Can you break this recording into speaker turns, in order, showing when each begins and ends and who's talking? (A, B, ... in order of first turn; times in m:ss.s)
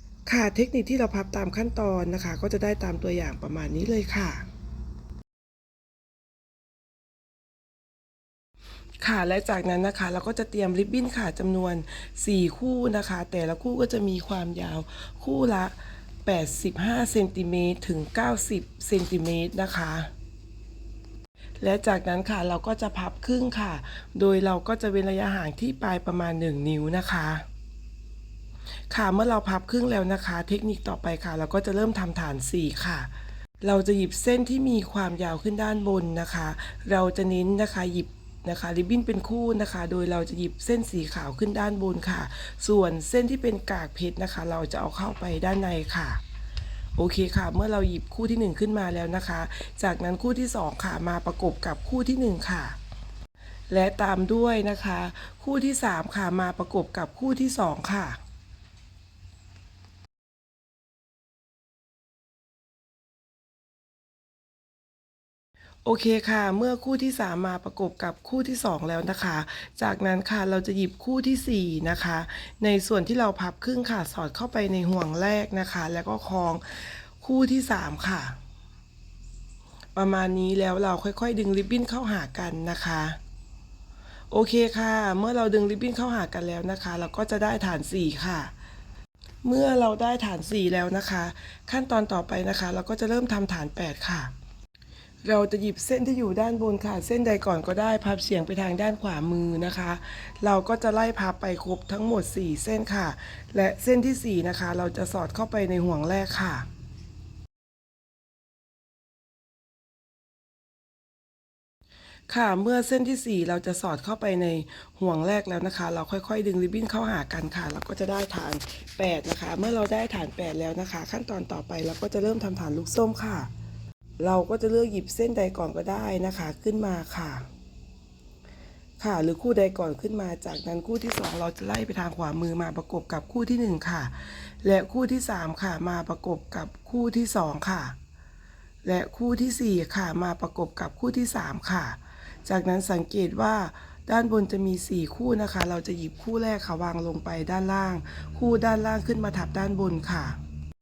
0:00.3-0:04.5 A
0:09.0-0:20.1 A
0:21.6-0:27.4 A
0:28.9-0:46.2 A
0:47.0-0:52.8 A
0:53.7-0:58.2 A
1:05.8-1:18.4 A
1:20.0-1:23.2 A
1:24.3-1:28.5 A
1:29.4-1:34.3 A
1:35.2-1:46.7 A
1:52.3-2:03.5 A
2:04.2-2:07.5 A
2:09.0-2:18.0 A
2:18.8-2:30.4 A